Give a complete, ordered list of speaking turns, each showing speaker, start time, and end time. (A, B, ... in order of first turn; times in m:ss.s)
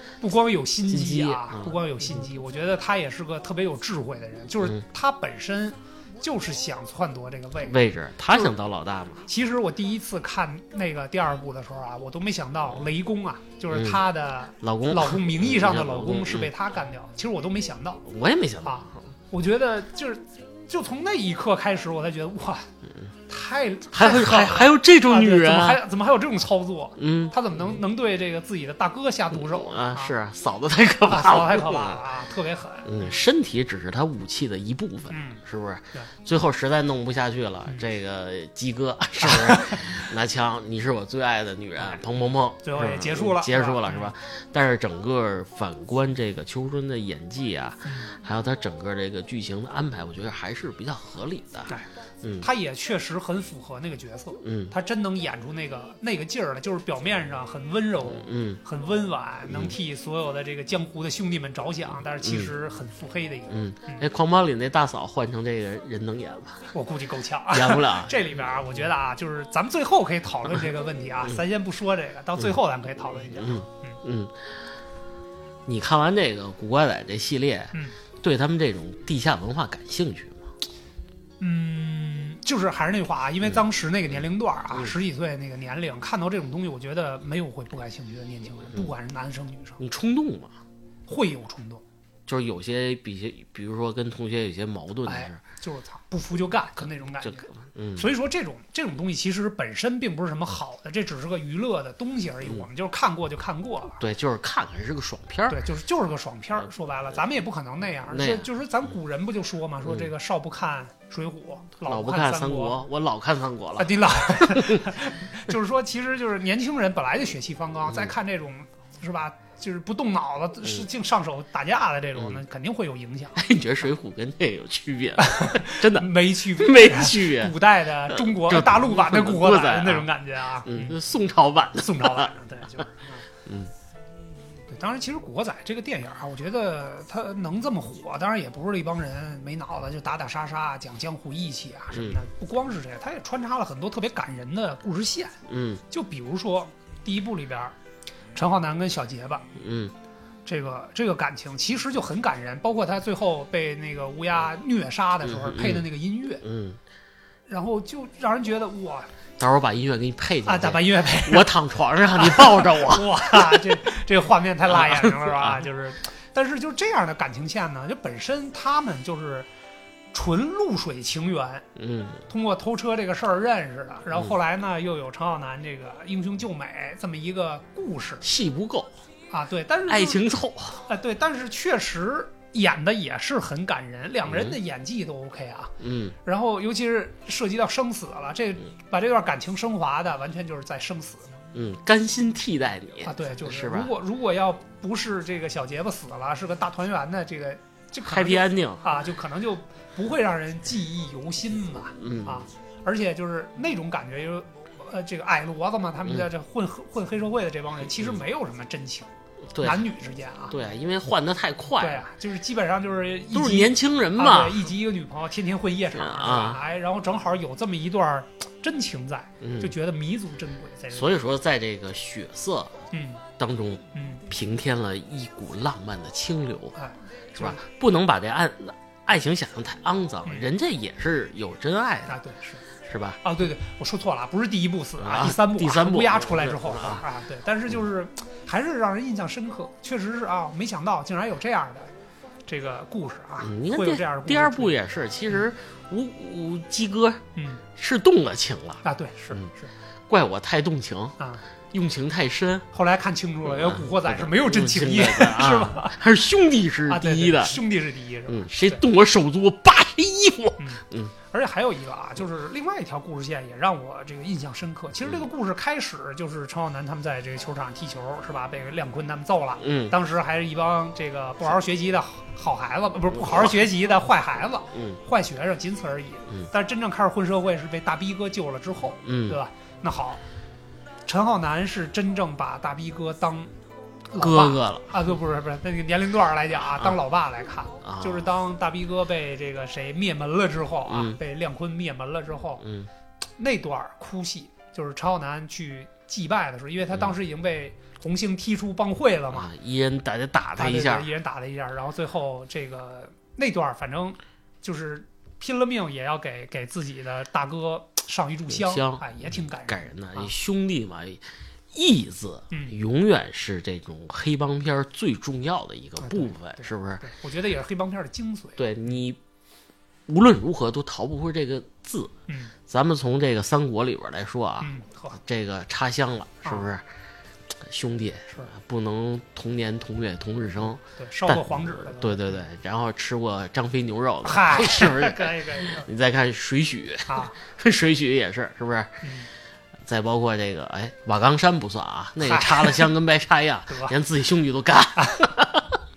0:00.2-0:07.8 A
0:00.9-0:01.8 B
0:07.6-0:09.3 B
0:09.3-0:18.0 A
0:13.7-0:14.0 B
0:14.6-0:16.5 B
0:18.0-0:18.9 B
0:18.6-0:22.7 A
0:23.3-0:30.1 A
0:23.9-0:25.8 B
0:27.0-0:27.3 B
0:29.3-0:32.0 B
0:31.0-0:33.1 A
0:32.8-0:52.4 B
0:35.1-0:35.4 A
0:39.2-0:40.0 A
0:42.6-0:44.1 A
0:47.8-0:48.1 A
0:52.4-1:04.1 A
0:54.4-0:54.7 B
0:58.2-0:58.6 B
0:59.5-0:59.7 B
1:02.2-1:02.5 B
1:03.5-1:06.7 B
1:06.7-1:14.0 A
1:07.5-1:08.2 B
1:13.3-1:14.5 B
1:15.6-1:20.4 B
1:21.4-1:29.8 A
1:29.8-1:30.5 B
1:31.1-1:31.8 A
1:32.3-1:35.4 B
1:35.0-1:44.0 A
1:37.2-1:38.1 B
1:44.0-1:45.6 B
1:45.5-1:52.8 A
1:48.1-1:48.5 B
1:51.8-1:54.9 B
1:53.8-2:03.5 A
2:03.4-2:07.5 B
2:05.2-2:11.0 A
2:08.1-2:10.1 B
2:10.6-2:12.3 B
2:11.8-2:13.2 A
2:13.4-2:13.7 B
2:14.7-2:25.4 A
2:21.9-2:22.2 B
2:25.5-2:25.8 B
2:25.9-2:27.7 A
2:28.3-2:29.4 A
2:29.6-2:29.9 B
2:30.4-2:36.4 A
2:35.2-2:35.8 B
2:36.4-2:36.8 B
2:37.5-2:39.1 A
2:39.4-2:43.8 B
2:40.4-2:41.5 A
2:42.2-2:49.5 A
2:44.7-2:45.6 B
2:50.1-2:51.6 A
2:51.8-2:52.2 B
2:52.3-2:58.2 A
2:58.2-2:58.9 B
2:59.3-3:00.2 A
2:59.9-3:00.8 B
3:00.8-3:11.3 A
3:04.3-3:04.5 B
3:05.8-3:06.1 B
3:11.5-3:13.9 B
3:13.0-3:29.1 A
3:18.0-3:18.8 B
3:22.0-3:22.4 B
3:29.5-3:29.8 B
3:29.6-3:30.6 A
3:30.5-3:32.0 B
3:31.8-3:41.1 A
3:33.3-3:34.7 B
3:35.9-3:36.6 B
3:39.4-3:39.7 B
3:40.9-3:42.8 B
3:42.9-3:43.2 A
3:43.4-3:46.7 B
3:43.9-3:44.2 A
3:46.8-3:47.6 A
3:47.3-3:52.2 B
3:52.1-3:52.6 A
3:52.8-3:53.2 B
3:53.2-4:01.9 A
3:55.0-3:57.0 B
4:02.5-4:04.8 A
4:03.4-4:07.2 B
4:07.4-4:07.6 A
4:07.8-4:08.8 B
4:08.8-4:09.7 A
4:10.1-4:11.2 B
4:11.7-4:12.6 B
4:12.7-4:16.0 A
4:13.4-4:17.6 B
4:16.9-4:18.8 A
4:18.3-4:21.1 B
4:20.6-4:40.2 A
4:29.6-4:29.9 B
4:33.2-4:33.5 B
4:34.7-4:35.0 B
4:39.0-4:39.4 B
4:41.0-4:43.5 A
4:44.1-4:52.6 A
4:44.2-4:45.0 B
4:47.8-4:48.3 B
4:50.9-4:51.2 B
4:52.6-4:52.9 B
4:53.4-4:59.5 A
4:59.3-5:01.1 B
5:00.6-5:10.3 A
5:08.5-5:09.0 B
5:09.6-5:17.0 B
5:12.5-5:12.8 A
5:16.0-5:18.6 A
5:18.6-5:19.2 B
5:20.1-5:22.1 B
5:22.3-5:22.5 A
5:22.7-5:26.8 B
5:24.6-5:25.2 A
5:27.5-5:39.0 B
5:31.0-5:32.4 A
5:34.2-5:35.8 A
5:37.1-5:37.4 A
5:39.0-5:39.3 A
5:39.8-5:45.8 B
5:42.2-5:42.9 A
5:43.7-5:44.0 A
5:45.0-5:45.2 A